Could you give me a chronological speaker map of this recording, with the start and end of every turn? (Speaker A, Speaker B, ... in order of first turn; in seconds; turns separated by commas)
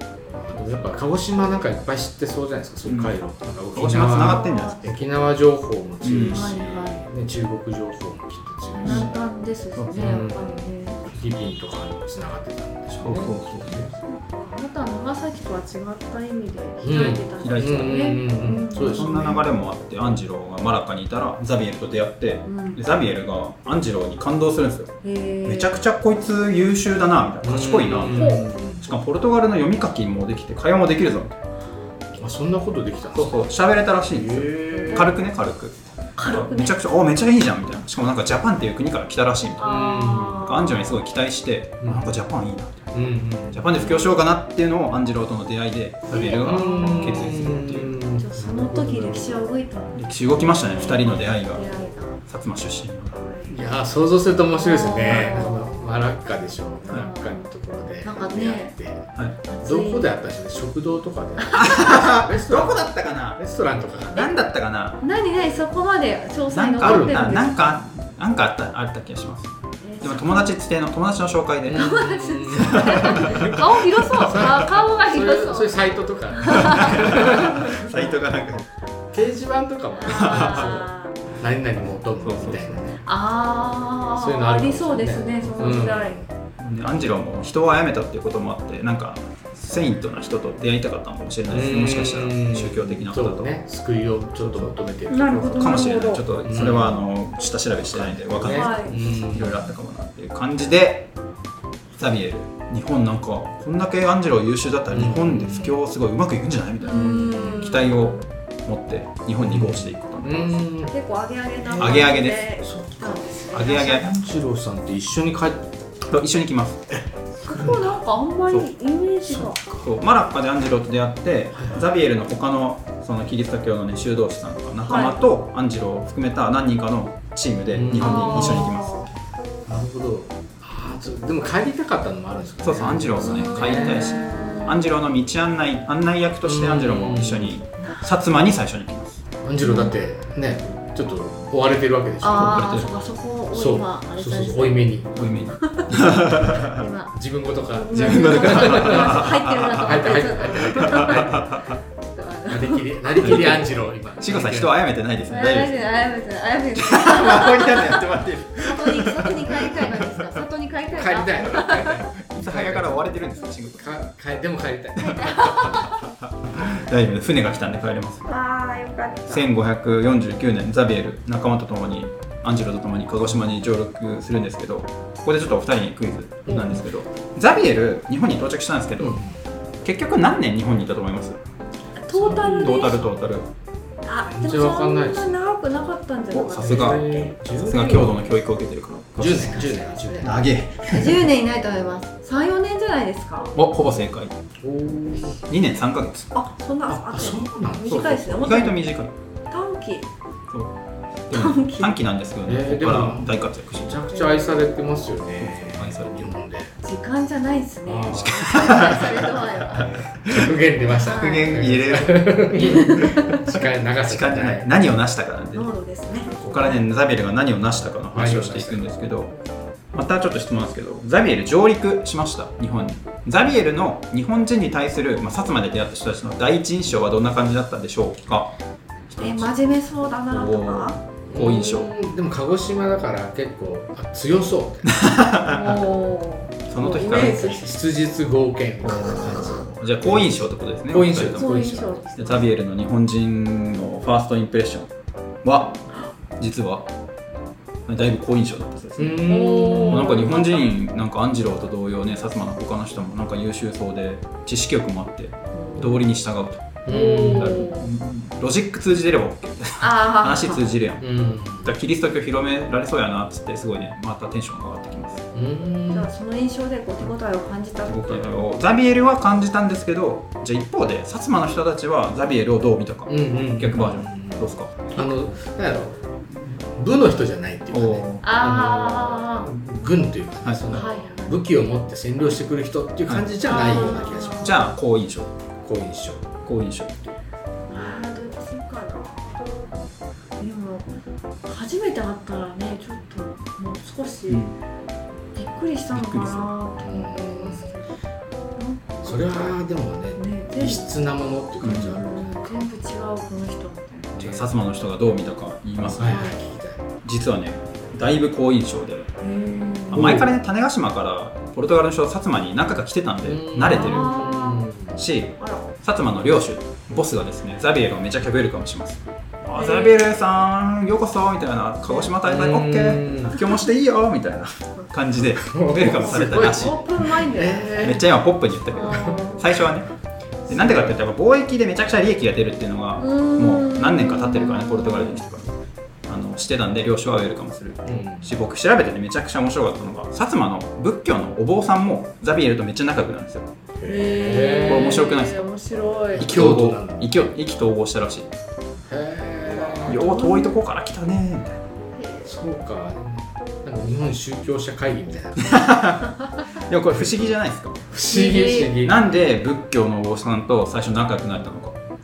Speaker A: 0.3-9.2, Speaker B: 2.9-3.1, Speaker B: 3.8-5.1, Speaker C: 4.2-4.8, Speaker B: 6.0-6.5, Speaker C: 6.1-7.0, Speaker C: 8.8-11.1, Speaker B: 8.8-9.1, Speaker B: 9.8-10.2, Speaker A: 9.9-13.9, Speaker B: 13.0-13.9, Speaker C: 14.1-19.4, Speaker A: 16.8-19.4, Speaker B: 17.1-18.2, Speaker B: 18.9-31.4, Speaker C: 22.4-22.8, Speaker C: 25.0-25.8, Speaker A: 27.4-28.9, Speaker C: 28.0-28.5, Speaker A: 32.2-33.4, Speaker B: 33.1-39.7, Speaker A: 34.1-35.1, Speaker C: 34.8-35.1, Speaker C: 36.2-36.8, Speaker C: 39.6-40.9, Speaker A: 39.6-40.4, Speaker B: 40.4-42.9, Speaker A: 41.8-42.1, Speaker A: 42.9-43.9, Speaker B: 43.5-48.0, Speaker C: 46.1-47.5, Speaker A: 46.4-49.4, Speaker C: 48.1-52.2, Speaker B: 49.9-51.6, Speaker B: 52.3-53.2, Speaker C: 53.1-53.5, Speaker A: 53.5-59.1, Speaker C: 54.6-55.9, Speaker C: 56.9-57.5, Speaker C: 58.0-58.7, Speaker C: 59.5-60.1, Speaker A: 59.6-64.3, Speaker B: 61.5-63.4, Speaker B: 64.1-65.0, Speaker C: 65.0-67.8, Speaker B: 66.5-72.0, Speaker A: 66.8-67.4, Speaker C: 69.8-70.6, Speaker A: 71.7-78.1, Speaker C: 71.8-77.2, Speaker B: 72.6-74.5, Speaker B: 76.5-78.7, Speaker A: 79.1-83.0, Speaker C: 80.0-81.2, Speaker B: 80.1-80.8, Speaker B: 82.2-82.8, Speaker C: 83.0-86.2, Speaker A: 84.1-86.3, Speaker B: 86.6-93.6, Speaker A: 91.5-97.0, Speaker B: 94.4-94.8, Speaker C: 95.1-96.2, Speaker B: 95.5-101.1, Speaker A: 97.9-99.7, Speaker C: 98.5-99.0, Speaker B: 102.0-110.6, Speaker A: 104.9-105.8, Speaker C: 106.8-108.2, Speaker A: 106.9-107.7, Speaker A: 109.4-110.9, Speaker C: 110.9-114.0, Speaker A: 111.7-115.7, Speaker B: 111.8-112.5, Speaker B: 113.5-114.1, Speaker B: 116.1-116.8, Speaker A: 116.9-118.0, Speaker C: 117.5-119.7, Speaker A: 119.3-119.9, Speaker B: 119.8-129.1, Speaker A: 121.5-121.8, Speaker C: 124.8-125.2, Speaker A: 127.7-128.8, Speaker C: 128.0-129.1, Speaker A: 129.7-134.2, Speaker B: 132.6-139.2, Speaker C: 133.2-134.8, Speaker A: 136.4-137.6, Speaker C: 137.8-138.1, Speaker A: 139.4-142.8, Speaker C: 139.6-139.9, Speaker C: 142.2-153.7, Speaker B: 142.3-142.9, Speaker A: 143.5-145.1, Speaker B: 145.2-146.9, Speaker A: 147.1-151.6, Speaker B: 147.9-150.2, Speaker B: 150.8-151.8, Speaker A: 152.5-154.7, Speaker B: 153.2-156.1, Speaker C: 155.3-162.0, Speaker B: 156.8-160.4, Speaker A: 160.9-163.2, Speaker B: 162.3-164.0, Speaker A: 163.8-165.9, Speaker C: 165.0-166.0, Speaker B: 166.2-168.3, Speaker C: 168.3-169.5, Speaker B: 169.3-179.2, Speaker A: 176.5-176.8, Speaker A: 179.0-179.4, Speaker B: 179.8-181.4, Speaker C: 182.0-183.1, Speaker A: 182.1-183.1, Speaker B: 182.6-183.5, Speaker C: 184.1-187.3, Speaker A: 184.2-185.4, Speaker B: 186.3-187.1, Speaker A: 186.6-188.2, Speaker B: 187.6-189.7, Speaker A: 189.2-190.4, Speaker C: 189.5-193.6, Speaker B: 190.2-191.3, Speaker B: 193.6-194.4, Speaker A: 194.6-195.4, Speaker B: 195.5-196.3, Speaker C: 196.3-198.8, Speaker A: 196.9-198.3, Speaker B: 197.9-199.1, Speaker C: 199.5-200.1, Speaker B: 201.3-204.0, Speaker C: 201.3-201.9, Speaker A: 202.5-206.7, Speaker C: 204.1-204.4, Speaker B: 205.4-206.3, Speaker C: 206.8-209.9, Speaker A: 207.9-214.7, Speaker B: 208.1-210.5, Speaker C: 210.9-211.5, Speaker B: 211.1-213.1, Speaker C: 212.6-213.4, Speaker B: 214.1-219.3, Speaker C: 215.5-216.8, Speaker A: 218.1-218.9, Speaker B: 219.9-228.5, Speaker B: 229.1-229.5, Speaker C: 229.2-231.0, Speaker B: 230.3-231.9, Speaker A: 231.3-234.9, Speaker B: 234.9-235.8, Speaker C: 235.5-237.7, Speaker B: 236.7-237.6, Speaker A: 237.4-241.9, Speaker B: 238.9-244.9, Speaker C: 239.0-239.5, Speaker C: 241.3-242.5, Speaker B: 245.4-245.9, Speaker B: 246.4-246.9, Speaker B: 247.9-249.3, Speaker A: 249.0-250.2, Speaker C: 249.1-250.7, Speaker B: 249.9-261.1, Speaker A: 256.9-257.8, Speaker C: 256.9-257.8, Speaker C: 259.8-260.6, Speaker A: 261.0-261.7, Speaker B: 261.6-265.3, Speaker A: 265.3-266.1, Speaker C: 265.9-268.4, Speaker B: 267.9-275.1, Speaker A: 273.1-276.0, Speaker A: 276.5-284.6, Speaker B: 277.7-278.2, Speaker C: 278.2-279.5, Speaker B: 280.4-280.8, Speaker C: 280.7-281.4, Speaker B: 283.1-285.3, Speaker C: 283.4-284.6, Speaker A: 285.6-286.3, Speaker B: 286.4-287.1, Speaker C: 287.7-289.5, Speaker C: 290.4-290.9, Speaker C: 291.5-294.5, Speaker B: 294.3-294.6, Speaker C: 295.3-297.9, Speaker B: 295.9-296.5, Speaker A: 296.8-297.7, Speaker C: 298.6-299.6, Speaker A: 299.0-302.7, Speaker C: 300.2-300.9, Speaker B: 301.6-301.9, Speaker C: 301.6-304.1, Speaker A: 304.1-304.5, Speaker B: 304.2-306.3, Speaker A: 305.9-306.8, Speaker C: 306.0-306.4, Speaker B: 307.0-309.1, Speaker C: 309.2-310.2, Speaker B: 309.9-314.1, Speaker A: 309.9-310.3, Speaker A: 313.2-315.0, Speaker C: 313.7-314.7, Speaker B: 315.0-326.9, Speaker C: 315.4-315.7, Speaker C: 319.6-320.0, Speaker C: 321.9-322.1, Speaker A: 322.2-323.4, Speaker A: 325.4-328.0, Speaker C: 325.8-327.9, Speaker B: 327.8-329.9, Speaker C: 328.7-329.5, Speaker A: 328.9-329.2, Speaker A: 330.5-330.9, Speaker B: 330.5-335.5, Speaker C: 333.0-335.2, Speaker B: 336.1-343.5, Speaker A: 337.9-338.3, Speaker A: 343.8-345.0, Speaker C: 343.9-346.2, Speaker B: 344.6-345.5, Speaker A: 346.1-347.1, Speaker B: 346.2-348.3, Speaker A: 348.9-350.0, Speaker C: 349.6-350.6, Speaker B: 349.9-351.6, Speaker C: 351.9-352.4, Speaker A: 352.2-355.7, Speaker B: 355.4-357.8, Speaker A: 357.9-359.0, Speaker C: 358.1-358.7, Speaker B: 358.8-361.8